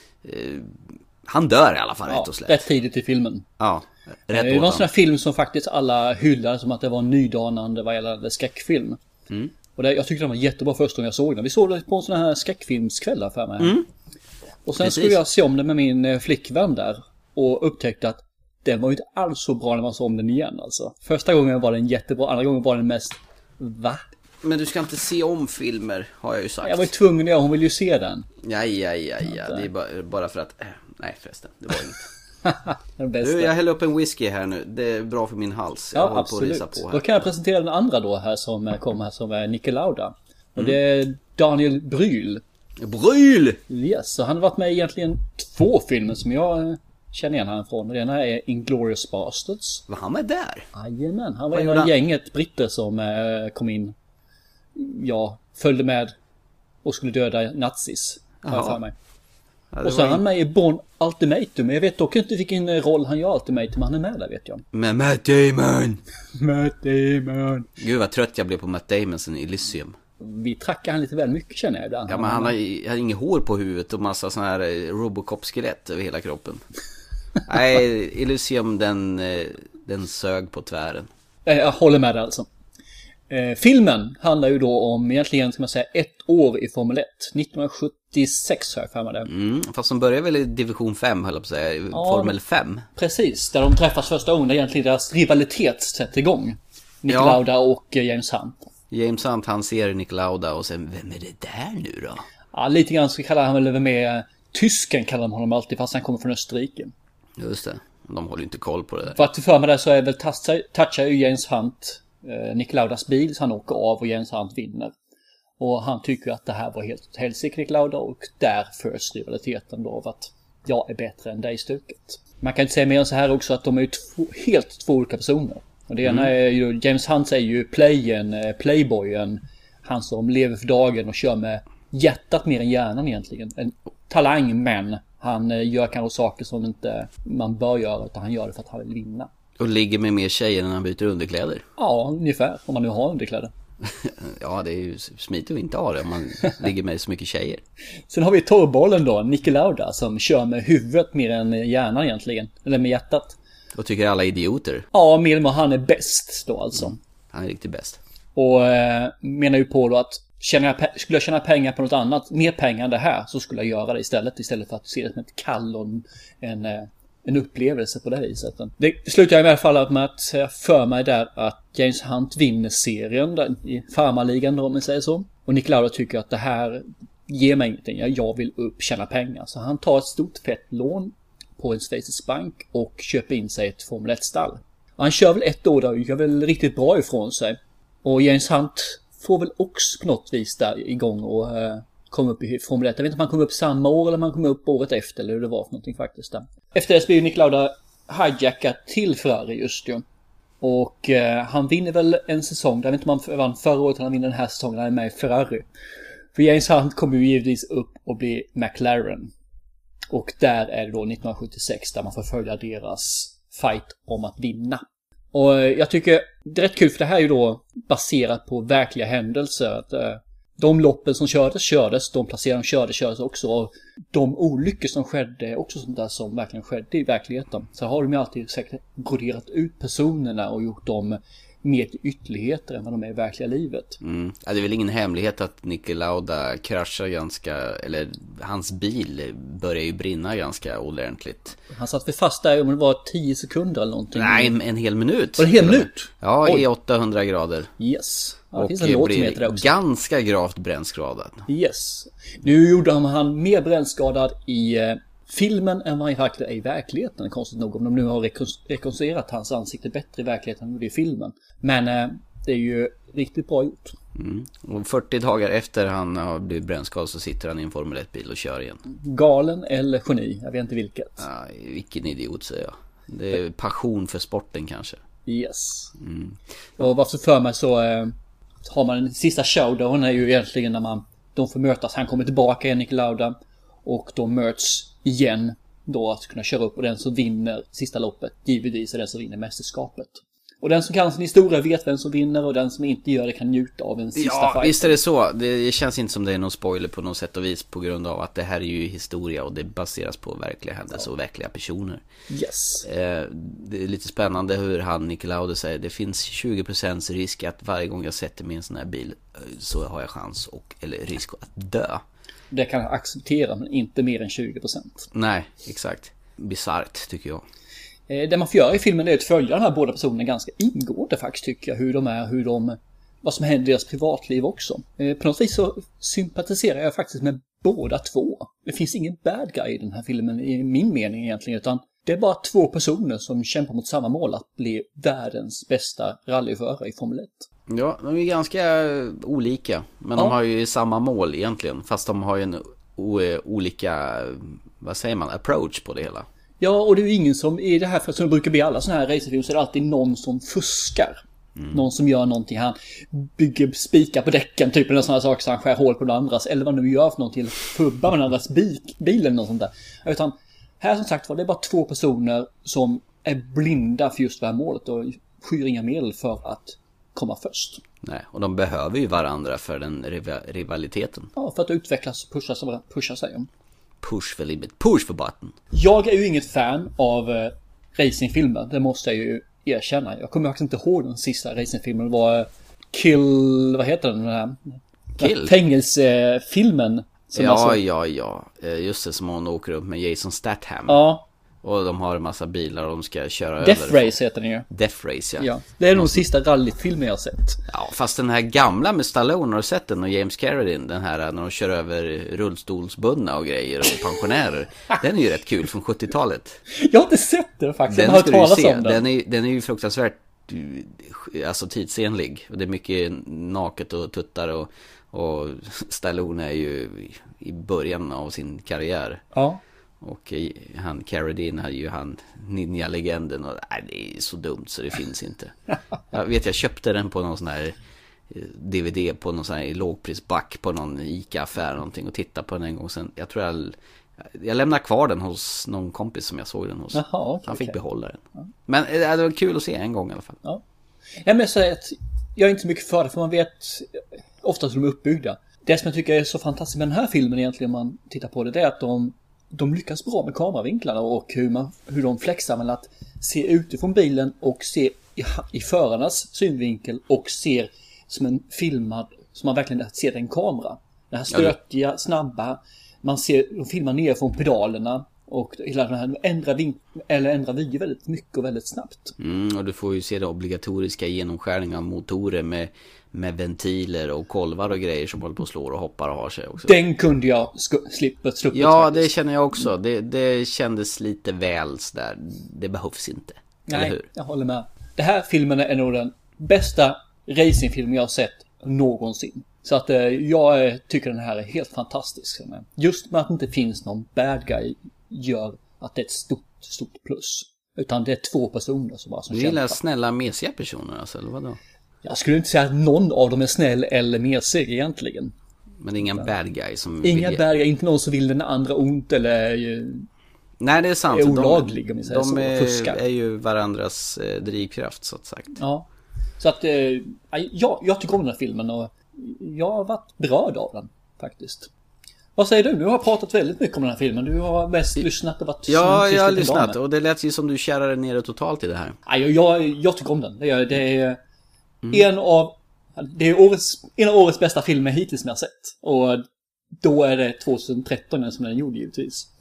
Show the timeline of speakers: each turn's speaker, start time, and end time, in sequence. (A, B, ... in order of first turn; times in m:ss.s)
0:00.2-0:02.6 A
0:02.1-0:03.5 B
0:03.6-0:04.9 A
0:04.3-0:09.0 B
0:09.8-0:13.8 B
0:13.6-0:13.8 A
0:14.6-0:24.0 B
0:14.8-0:15.2 A
0:24.4-0:26.9 A
0:26.6-0:28.3 B
0:28.4-0:32.1 A
0:29.2-0:29.7 B
0:33.0-0:33.5 B
0:33.2-0:37.0 A
0:35.9-0:42.4 B
0:42.8-0:43.6 A
0:43.7-0:49.8 B
0:49.9-0:50.6 A
0:50.7-0:53.9 B
0:51.5-0:51.9 A
0:54.7-0:56.1 B
0:56.8-0:58.9 B
0:58.4-0:58.8 A
0:59.7-1:00.2 A
0:59.8-1:04.6 B
1:04.7-1:06.0 A
1:06.4-1:07.7 B
1:07.8-1:10.0 A
1:10.2-1:12.5 B
1:12.1-1:16.6 A
1:17.4-1:21.1 A
1:21.4-1:22.5 B
1:23.3-1:29.3 B
1:29.3-1:32.9 A
1:31.9-1:32.4 B
1:33.0-1:38.7 B
1:37.1-1:37.4 A
1:38.9-1:42.2 A
1:42.5-1:46.9 B
1:47.4-1:49.2 A
1:49.1-1:54.9 B
1:55.6-2:19.3 B
2:06.0-2:06.3 A
2:19.6-2:21.6 A
2:21.8-2:23.5 B
2:23.8-2:27.6 A
2:28.1-2:33.4 B
2:33.7-2:34.9 A
2:34.9-2:37.0 B
2:36.8-2:38.0 A
2:38.4-3:20.0 B
3:20.6-3:25.6 B
3:26.3-3:29.3 B
3:30.1-3:54.0 B
3:54.0-4:01.6 A
4:01.7-4:04.5 B
4:04.1-4:07.7 A
4:05.4-4:06.7 B
4:07.8-4:09.7 B
4:08.5-4:11.4 A
4:11.5-4:24.0 B
4:24.1-4:28.8 A
4:28.9-4:31.2 B
4:31.2-4:35.0 A
4:35.2-4:35.9 B
4:36.0-4:36.4 A
4:36.8-4:38.1 B
4:38.6-4:43.3 B
4:43.8-4:55.0 B
4:54.1-5:02.0 A
5:02.3-5:02.8 B
5:02.8-5:12.0 A
5:12.5-5:15.0 B
5:15.1-5:17.4 A
5:18.1-5:37.5 B
5:37.7-5:46.3 A
5:46.6-6:07.8 B
5:51.6-5:51.8 A
6:08.0-6:11.3 A
6:11.4-6:13.5 B
6:14.0-6:15.5 A
6:15.7-6:27.8 B
6:25.2-6:25.6 A
6:27.3-6:31.0 A
6:30.9-6:31.2 B
6:31.6-6:34.1 A
6:33.6-6:34.7 B
6:34.7-6:36.2 A
6:35.4-6:37.6 B
6:37.7-6:46.6 A
6:46.7-6:49.0 B
6:47.9-6:59.2 A
6:59.3-6:59.6 B
7:00.0-7:05.5 A
7:06.1-7:07.7 A
7:08.3-7:20.4 A
7:16.9-7:17.8 B
7:21.2-7:49.2 B
7:41.3-7:41.5 A
7:49.2-7:56.8 A
7:56.6-7:59.1 B
7:58.5-8:04.1 A
8:03.7-8:19.8 B
8:19.3-8:21.6 A
8:22.0-8:25.3 B
8:25.8-8:27.4 A
8:27.0-8:30.1 B
8:30.6-8:35.6 A
8:31.1-8:33.0 B
8:35.6-8:35.9 B
8:36.4-8:41.7 B
8:42.4-8:46.8 B
8:45.7-8:49.0 A
8:49.0-8:51.2 B
8:51.9-8:56.2 B
8:56.8-8:59.3 B